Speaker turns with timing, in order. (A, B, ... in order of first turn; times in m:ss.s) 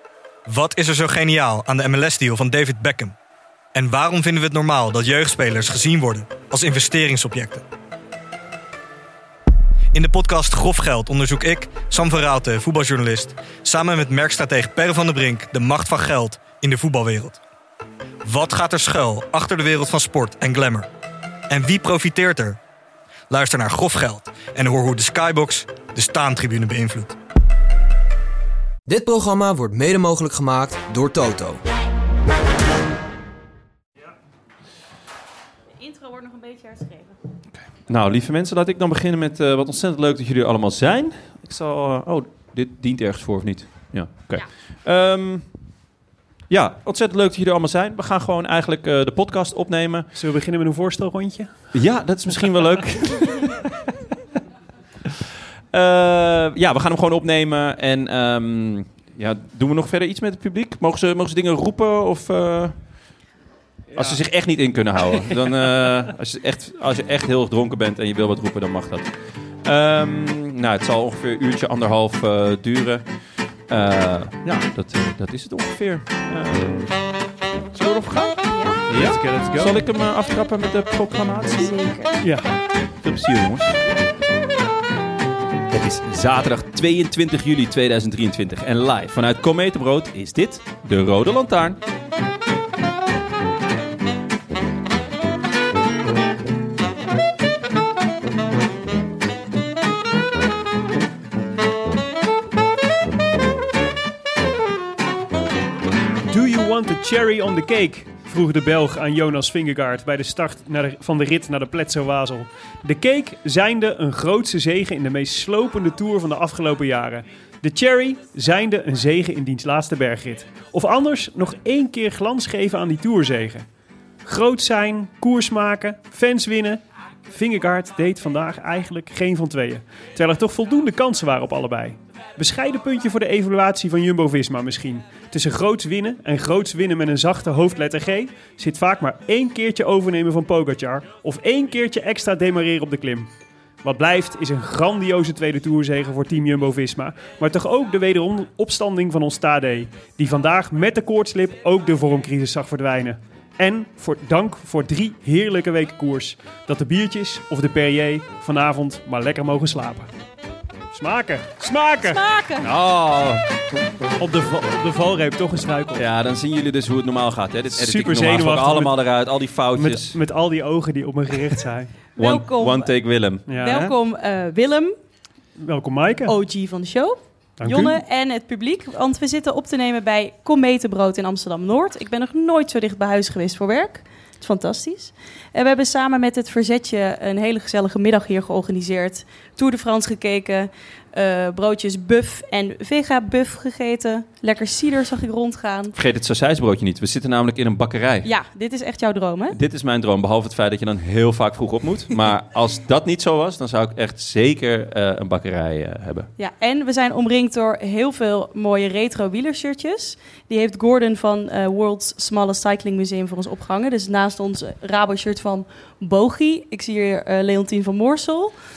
0:00.5-0:03.2 A
0:03.7-0:07.6 A
0:09.9-0:17.4 A
0:18.2-0:20.9 A
0:21.5-0:22.6 A
0:23.3-0:27.2 A
0:28.9-0:31.6 B
0:35.8-0:37.2 C
0:37.7-0:45.5 D
0:46.5-0:50.1 D
0:50.1-0:51.7 E
0:51.7-0:53.9 D
0:55.7-1:02.8 D
1:03.9-1:04.2 E
1:04.0-1:13.1 D
1:13.7-1:17.0 D
1:17.7-1:21.7 D
1:18.5-1:18.8 C
1:18.9-1:19.8 E
1:21.6-1:22.2 C
1:22.2-1:22.5 E
1:23.0-1:23.8 D
1:25.7-1:31.8 D
1:46.3-2:03.6 E
2:04.3-2:23.3 E
2:23.8-2:40.1 E
2:40.9-2:42.2 E
2:42.0-2:42.7 C
2:42.6-2:43.5 D
2:44.2-2:46.0 E
2:46.0-2:50.2 D
2:47.7-2:49.0 E
2:49.7-2:51.9 E
2:52.2-2:54.9 C
2:52.2-2:53.9 D
2:53.5-2:53.9 E
2:55.6-2:56.3 E
2:56.3-3:16.0 C
2:57.6-2:58.0 E
3:15.9-3:18.3 D
3:18.2-3:19.6 C
3:19.5-3:26.3 D
3:26.4-3:38.6 C